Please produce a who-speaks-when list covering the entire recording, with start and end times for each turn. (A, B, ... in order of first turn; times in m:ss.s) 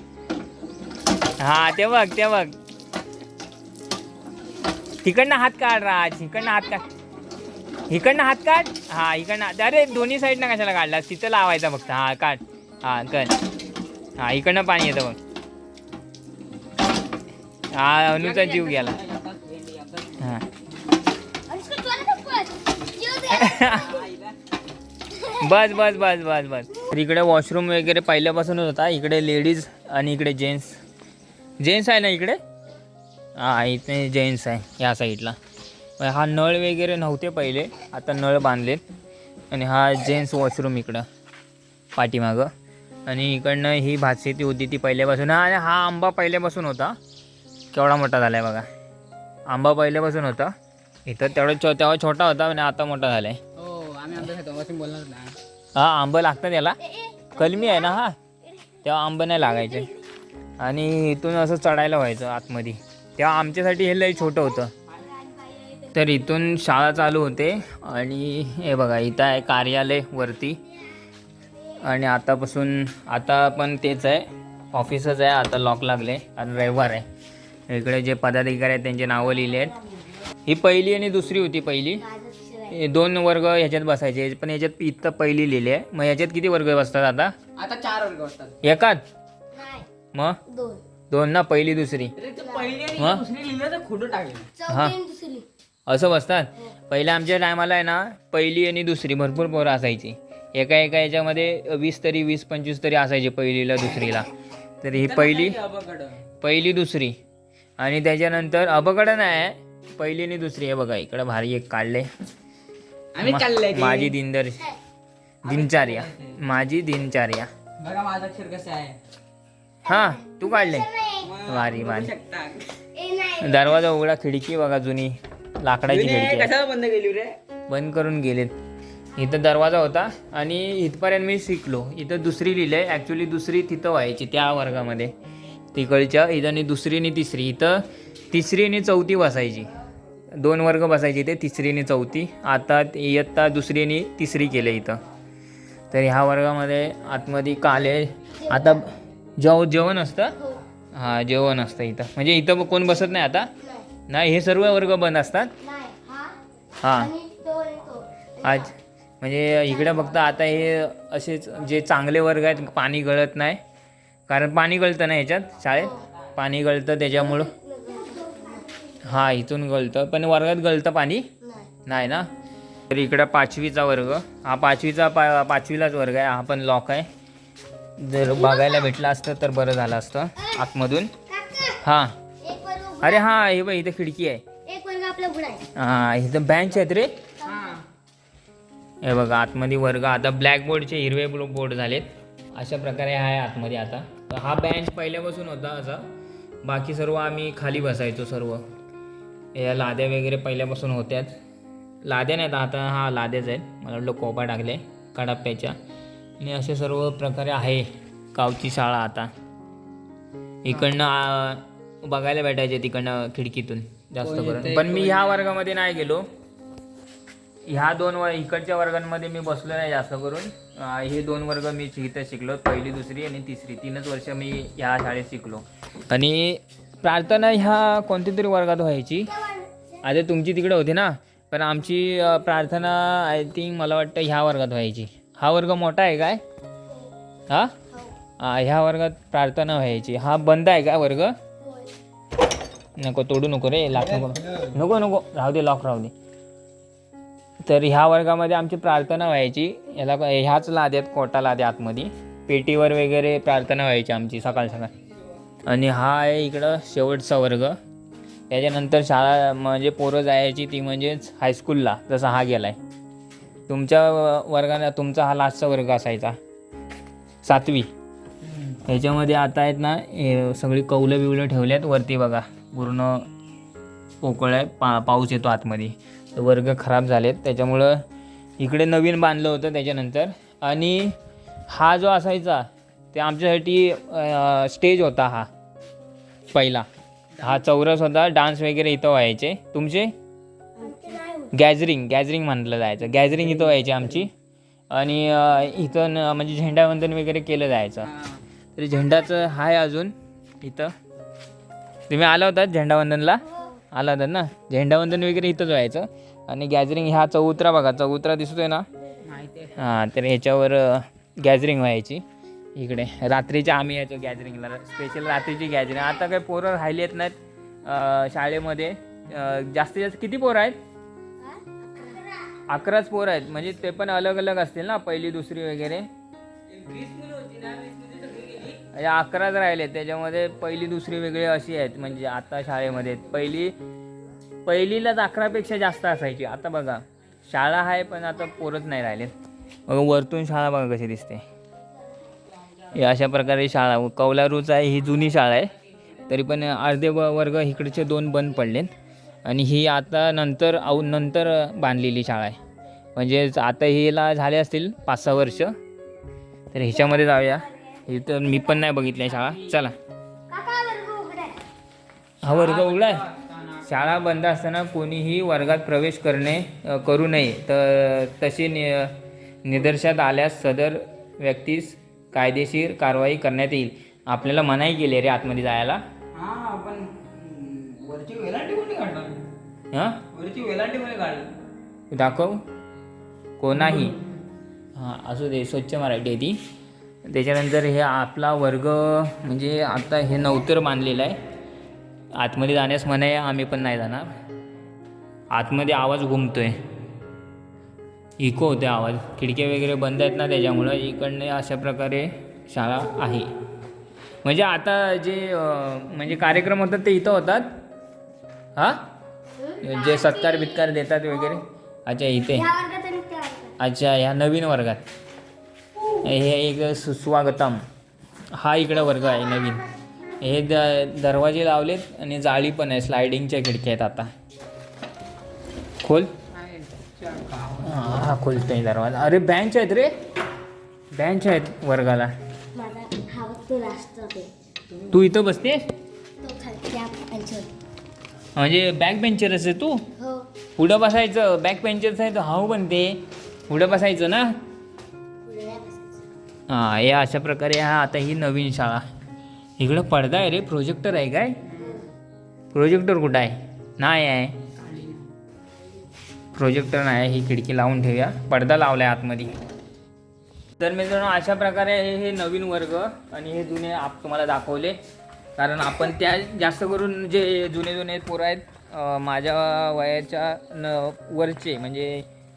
0:01.4-0:02.6 A
0:05.0-0:06.9 A
0:07.9-0:13.4 A
0:14.2-0:15.2 A
0:17.7-0:19.0 A
0:18.1-0:20.3 B
0:20.2-0:20.5 A
0:21.5-0:24.1 C
0:23.3-0:23.9 A
0:23.7-0:24.4 B
0:25.3-0:30.8 A
0:31.6-0:32.4 A
0:33.4-0:35.4 A
0:36.0-0:38.8 A
0:39.5-0:41.1 A
0:42.0-0:42.5 A
0:43.1-0:47.0 A
0:47.7-0:48.7 A
0:49.5-0:50.5 A
0:51.1-0:53.4 A
0:53.6-0:55.4 B
0:55.8-0:58.2 A
0:56.9-0:58.7 C
0:58.8-0:59.9 A
1:00.6-1:04.7 A
1:05.0-1:05.9 B
1:05.9-1:10.6 A
1:11.7-1:17.1 A
1:17.7-1:19.8 A
1:20.5-1:22.1 A
1:22.0-1:22.8 C
1:22.7-1:27.3 A
1:27.6-1:28.6 B
1:28.6-1:29.0 A
1:29.5-1:29.9 C
1:30.1-1:30.4 A
1:30.5-1:30.8 C
1:31.1-1:32.2 A
1:32.2-1:34.5 B
1:32.4-1:32.7 C
1:33.0-1:33.2 A
1:34.6-1:35.5 C
1:34.7-1:35.0 A
1:35.9-1:45.6 A
1:44.9-1:46.3 B
1:46.4-1:47.2 A
1:47.8-1:52.1 A
1:53.2-1:54.2 B
1:53.2-1:54.7 A
1:55.4-1:56.4 B
1:55.4-1:57.5 A
1:57.8-1:59.0 B
1:59.9-2:00.9 A
1:59.9-2:01.4 C
2:01.2-2:02.8 B
2:01.4-2:02.1 A
2:02.9-2:03.8 C
2:03.4-2:06.6 A
2:05.9-2:07.4 B
2:07.7-2:08.6 A
2:09.2-2:15.2 A
2:15.7-2:19.7 A
2:20.4-2:25.0 A
2:25.9-2:30.4 A
2:28.4-2:28.8 C
2:30.4-2:30.6 C
2:30.9-2:33.5 A
2:33.6-2:33.9 C
2:34.1-2:35.6 A
2:35.6-2:38.7 C
2:36.8-2:37.1 A
2:38.4-2:43.6 A
2:39.9-2:40.2 C
2:44.3-2:47.5 A
2:45.7-2:46.1 C
2:47.2-2:49.1 C
2:49.0-2:51.4 A
2:51.4-2:51.7 C
2:51.9-2:52.3 A
2:52.9-2:57.1 A
2:58.0-3:01.2 A
2:58.3-2:58.9 C
3:01.3-3:01.8 C
3:01.8-3:02.2 A
3:02.4-3:03.3 C
3:03.0-3:04.5 A
3:04.6-3:05.7 C
3:05.8-3:07.3 A
3:07.4-3:07.7 C
3:07.4-3:07.8 B
3:09.0-3:16.1 A
3:16.6-3:18.7 A
3:19.5-3:21.4 A
3:22.0-3:25.8 A
3:26.4-3:29.3 A
3:30.6-3:36.3 A
3:34.2-3:35.6 B
3:37.7-3:49.4 A
3:49.3-3:50.0 C
3:50.0-3:56.4 A
3:57.5-3:57.8 A
3:57.9-3:58.2 C
3:58.4-4:01.4 A
4:01.6-4:01.9 C
4:03.0-4:06.1 A
4:04.2-4:04.7 B
4:07.6-4:14.9 A
4:15.6-4:17.8 A
4:18.5-4:22.8 A
4:23.7-4:26.4 A
4:27.4-4:27.9 A
4:28.7-4:33.3 A
4:34.2-4:38.0 A
4:38.6-4:41.2 A
4:41.7-4:45.5 A
4:46.5-4:46.9 A
4:47.4-4:47.6 B
4:47.4-4:50.1 A
4:50.8-4:51.5 C
4:51.5-4:54.3 A
4:54.9-4:58.1 A
4:58.0-4:58.4 B
4:58.8-5:00.9 A
5:02.1-5:08.9 A
5:09.2-5:09.8 B
5:09.8-5:12.2 A
5:12.8-5:20.8 A
5:21.4-5:22.6 C
5:22.7-5:26.1 A
5:26.7-5:28.8 B
5:28.7-5:33.8 A
5:34.7-5:39.3 A
5:39.9-5:41.4 A
5:42.9-5:48.9 A
5:49.4-5:52.6 A
5:53.2-5:55.8 A
5:56.7-6:00.0 A
5:57.7-5:58.0 C
6:00.5-6:01.6 C
6:02.4-6:03.3 A
6:02.4-6:04.0 B
6:03.8-6:16.0 A
6:16.3-6:19.6 B
6:19.9-6:20.2 A
6:20.3-6:21.6 B
6:22.1-6:22.6 A
6:23.6-6:24.2 A
6:23.7-6:24.3 B
6:25.0-6:26.6 A
6:27.2-6:31.4 A
6:32.4-6:34.3 A
6:35.5-6:36.8 A
6:38.4-6:43.5 A
6:44.4-6:47.7 A
6:48.8-6:49.1 A
6:49.6-6:50.8 C
6:49.8-6:52.8 A
6:52.5-6:53.8 C
6:53.8-6:55.0 A
6:56.1-6:57.8 A
6:58.5-7:04.3 A
7:06.0-7:06.4 A
7:06.5-7:08.1 B
7:07.8-7:10.2 A
7:11.1-7:12.3 A
7:12.7-7:14.5 C
7:15.0-7:15.9 A
7:16.4-7:17.7 C
7:18.6-7:20.1 A
7:20.2-7:20.5 C
7:20.8-7:24.6 A
7:25.4-7:26.3 C
7:26.7-7:29.0 A
7:29.8-7:31.6 A
7:31.6-7:32.0 B
7:31.8-7:32.1 C
7:32.7-7:34.6 A
7:34.8-7:35.3 B
7:36.6-7:39.6 A
7:40.8-7:45.0 A
7:45.6-7:52.3 A